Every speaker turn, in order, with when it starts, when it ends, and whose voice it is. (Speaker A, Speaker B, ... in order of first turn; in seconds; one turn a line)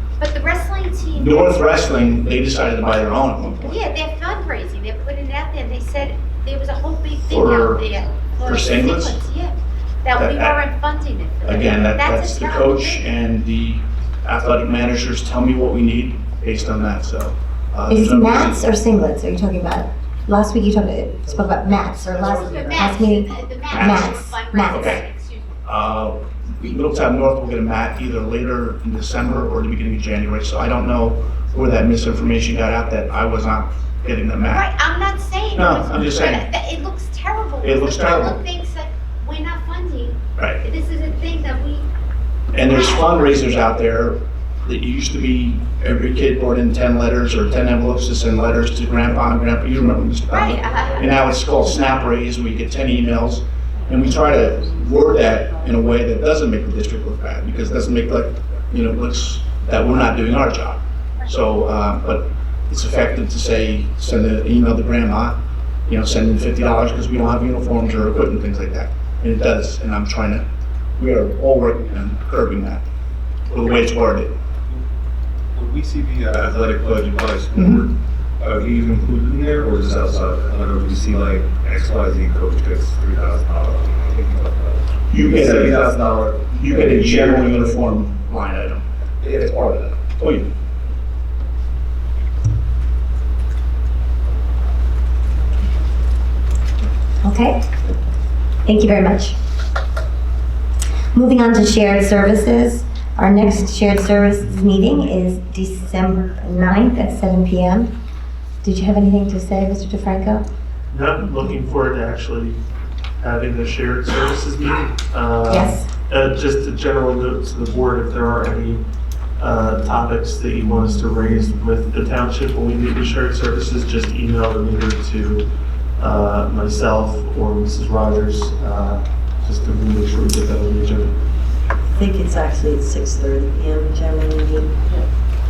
Speaker A: 0.2-1.5
Speaker B: 1.1-3.8
Speaker A: 3.6-13.0
Speaker B: 7.3-7.8
Speaker B: 8.4-9.2
Speaker B: 10.2-10.6
Speaker B: 11.4-18.6
Speaker C: 17.9-25.0
Speaker A: 22.3-25.5
Speaker B: 23.7-24.1
Speaker B: 24.7-25.0
Speaker B: 25.6-34.6
Speaker A: 34.5-41.9
Speaker B: 35.5-36.5
Speaker B: 37.6-38.4
Speaker B: 42.5-70.4
Speaker A: 42.6-43.2
Speaker A: 50.3-51.1
Speaker B: 71.0-72.8
Speaker B: 73.5-74.3
Speaker D: 75.5-87.7
Speaker B: 85.1-88.8
Speaker D: 89.2-90.0
Speaker B: 90.2-90.5
Speaker C: 97.2-97.7
Speaker C: 98.6-99.4
Speaker C: 101.1-107.9
Speaker C: 108.6-110.5
Speaker E: 110.9-112.6
Speaker E: 113.2-118.8
Speaker C: 115.5-115.9
Speaker E: 119.4-131.2
Speaker F: 131.9-135.0